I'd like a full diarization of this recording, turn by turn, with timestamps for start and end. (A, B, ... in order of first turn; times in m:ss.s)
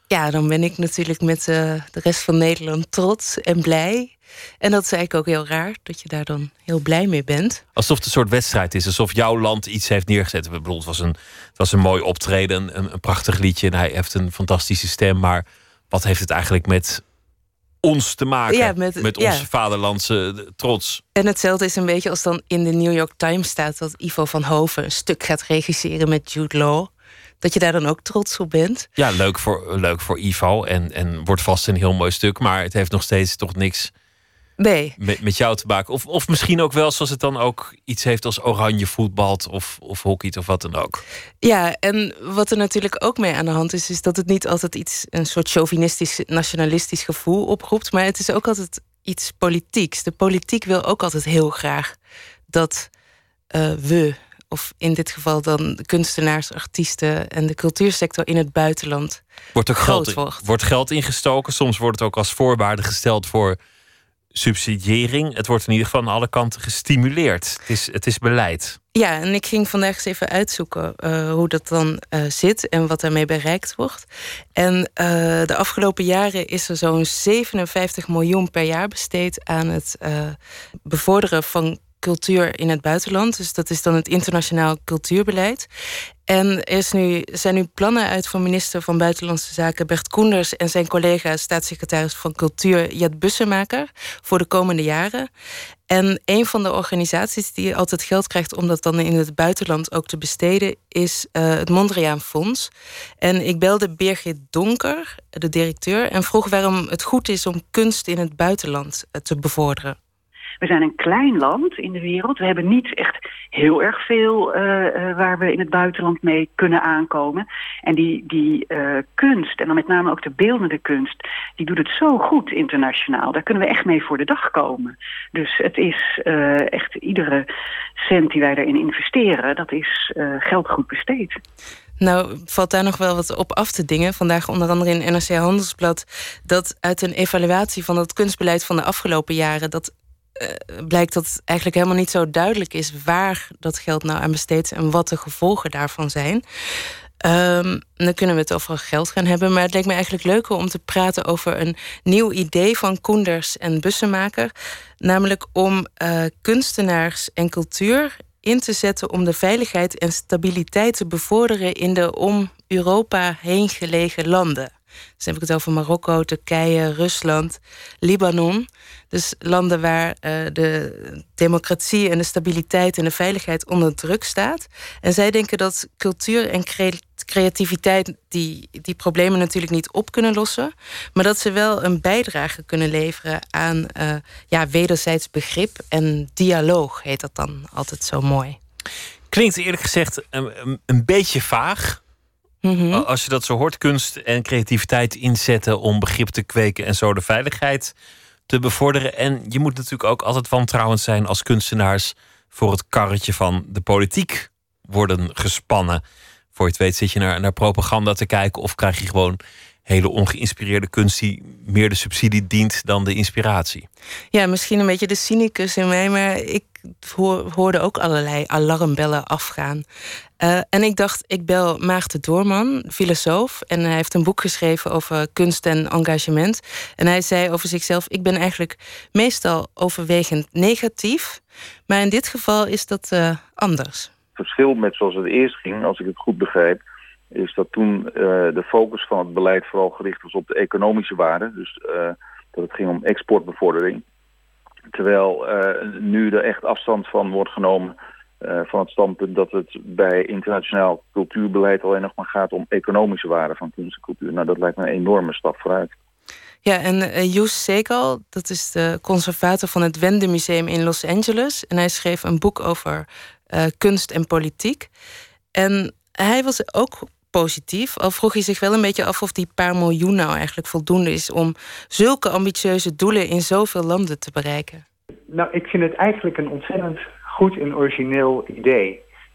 0:00.1-0:07.6 A
0:07.8-0:17.0 B
0:17.8-0:21.0 B
0:18.5-0:19.5 A
0:21.2-0:26.9 A
0:27.4-0:28.9 A
0:29.0-0:33.9 B
0:34.6-0:34.9 A
0:35.0-0:41.0 B
0:41.4-0:52.0 A
0:52.5-0:52.9 A
0:53.5-0:59.2 A
0:59.6-1:03.6 B
0:59.8-1:00.4 A
1:04.3-1:08.8 B
1:09.0-1:25.7 A
1:26.3-1:35.3 A
1:35.9-1:42.7 A
1:43.2-1:50.0 A
1:50.6-2:07.5 C
2:08.0-2:11.4 C
2:12.0-2:26.4 A
2:27.2-3:08.6 A
3:09.3-3:12.0 B
3:12.6-3:13.0 A
3:12.9-3:17.9 B
3:18.5-3:26.0 B
3:26.5-3:33.9 B
3:34.3-3:39.8 A
3:40.4-3:54.1 A
3:54.4-3:56.8 D
3:57.3-4:04.0 D
4:04.9-4:15.9 D
4:16.6-4:24.9 A
4:25.6-4:34.8 A
4:35.3-4:39.0 E